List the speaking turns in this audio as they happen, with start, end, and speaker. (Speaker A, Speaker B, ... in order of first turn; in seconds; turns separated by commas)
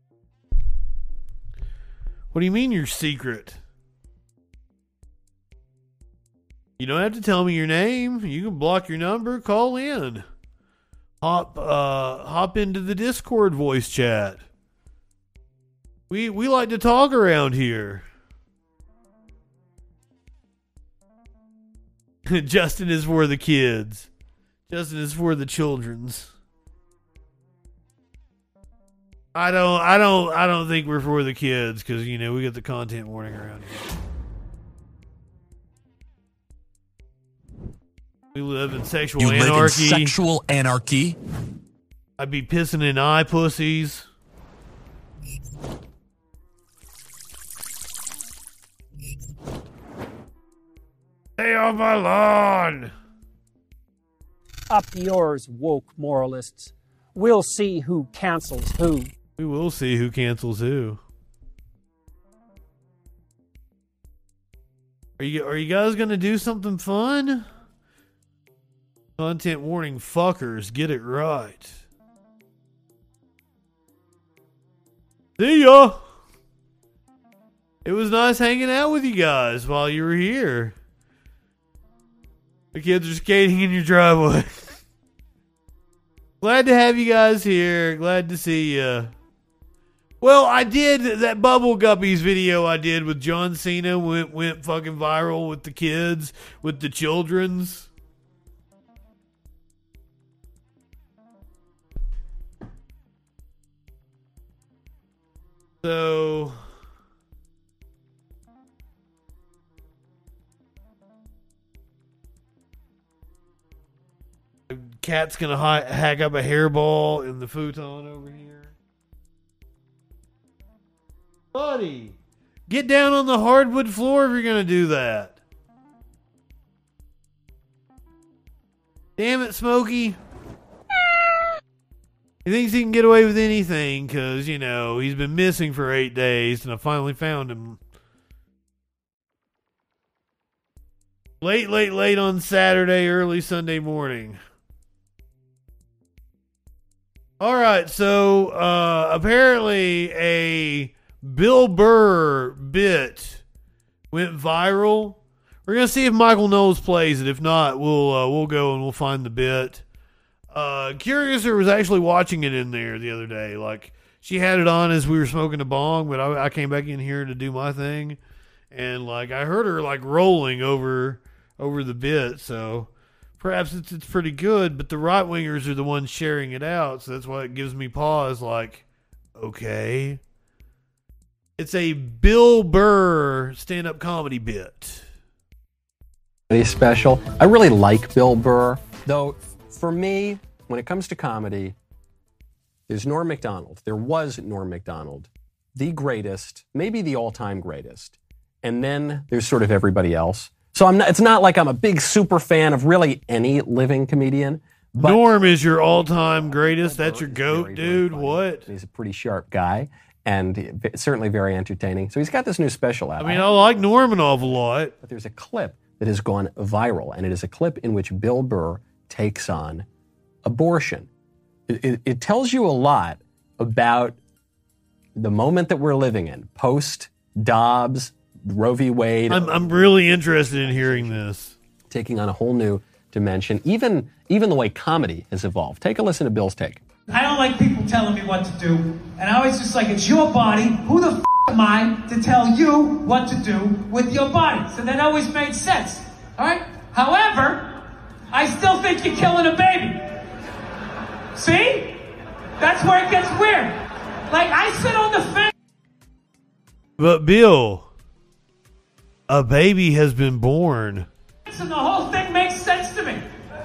Speaker A: 2.3-3.6, Speaker A: 6.8-10.2, Speaker A: 11.2-14.4, Speaker A: 16.1-18.1, Speaker A: 22.3-24.1, Speaker A: 24.7-26.3, Speaker A: 29.3-33.8, Speaker A: 38.3-40.2, Speaker B: 39.2-41.1, Speaker A: 42.2-44.1, Speaker A: 51.4-52.9, Speaker C: 54.7-59.1, Speaker A: 59.4-61.0, Speaker A: 65.2-67.5, Speaker A: 69.2-71.8, Speaker A: 75.4-76.0, Speaker A: 77.8-80.7, Speaker A: 82.7-84.8, Speaker A: 86.4-89.1, Speaker A: 90.2-97.9, Speaker A: 105.8-106.6, Speaker A: 114.7-118.7, Speaker A: 121.5-125.4, Speaker A: 129.2-130.2, Speaker A: 132.4-137.8, Speaker A: 141.4-144.4, Speaker A: 147.4-153.4, Speaker A: 154.1-159.8, Speaker A: 160.5-168.2, Speaker A: 168.7-178.8, Speaker A: 179.3-180.2, Speaker A: 181.6-185.1, Speaker D: 186.5-191.7, Speaker D: 192.9-205.2, Speaker A: 205.0-208.7, Speaker D: 205.9-213.5, Speaker A: 213.2-214.9, Speaker D: 215.0-219.8, Speaker D: 220.4-221.1, Speaker D: 221.7-224.2, Speaker D: 225.2-231.3, Speaker A: 229.3-231.6, Speaker D: 231.9-236.8, Speaker E: 237.1-247.8, Speaker E: 248.3-250.0, Speaker E: 251.3-253.8, Speaker E: 254.3-255.5, Speaker A: 257.0-257.9, Speaker A: 259.3-261.1, Speaker E: 261.5-263.2